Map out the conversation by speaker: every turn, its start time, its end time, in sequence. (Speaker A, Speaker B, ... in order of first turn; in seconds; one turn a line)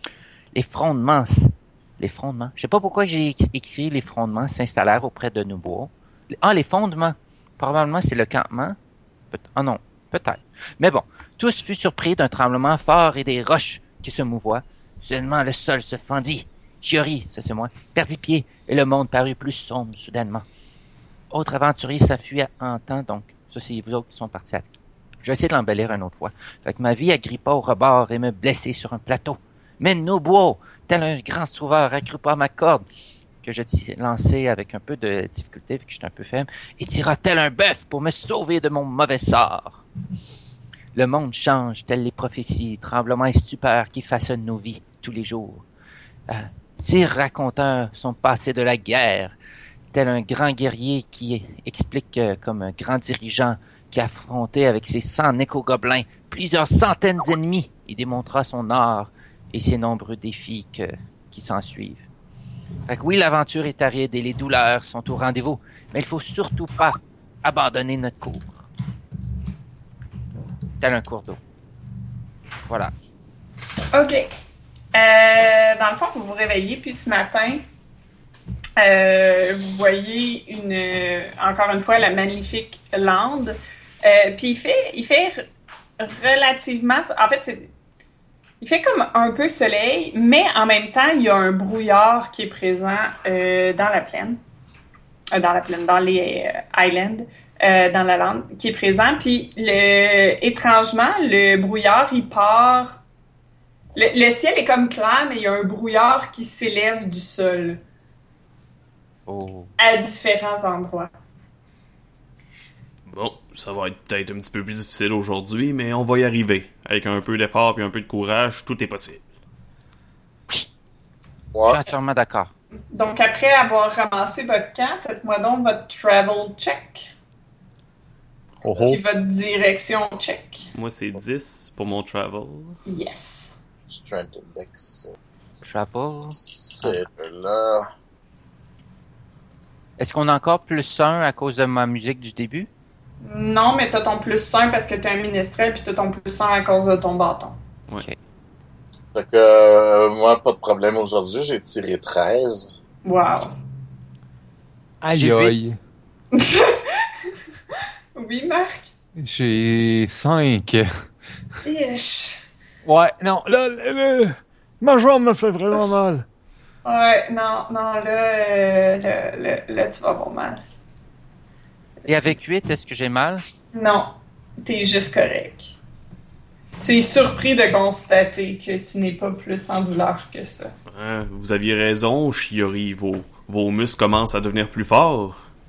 Speaker A: 0.5-8.8
Speaker A: 9.3-20.4
Speaker A: 21.3-24.7
Speaker A: 25.2-32.8
Speaker A: 33.4-39.8
Speaker A: 40.9-45.6
Speaker A: 46.3-49.3
Speaker A: 49.9-62.0
Speaker A: 62.9-68.7
Speaker A: 70.8-71.4
Speaker B: 73.9-74.3
Speaker B: 74.9-77.6
Speaker B: 78.8-85.4
Speaker B: 86.0-87.7
Speaker B: 88.6-94.4
Speaker B: 95.3-103.0
Speaker B: 103.9-107.8
Speaker A: 109.3-109.7
Speaker B: 109.8-111.1
Speaker C: 113.0-119.2
Speaker D: 121.5-121.8
Speaker A: 121.6-122.5
Speaker B: 122.9-127.1
Speaker E: 128.6-129.0
Speaker B: 128.8-130.7
Speaker C: 130.7-132.8
Speaker B: 132.8-133.5
Speaker D: 133.9-135.1
Speaker A: 135.6-137.0
Speaker D: 136.5-137.9
Speaker A: 140.0-142.7
Speaker B: 143.2-147.6
Speaker D: 149.1-152.7
Speaker B: 153.0-153.5
Speaker E: 155.0-155.8
Speaker A: 155.1-155.6
Speaker B: 156.3-157.0
Speaker B: 158.1-158.9
Speaker E: 159.2-160.9
Speaker B: 161.6-162.4
Speaker E: 162.8-163.2
Speaker F: 163.2-166.2
Speaker B: 166.8-170.6
Speaker A: 172.1-173.4
Speaker B: 173.7-175.7
Speaker B: 176.8-180.7
Speaker C: 180.9-185.4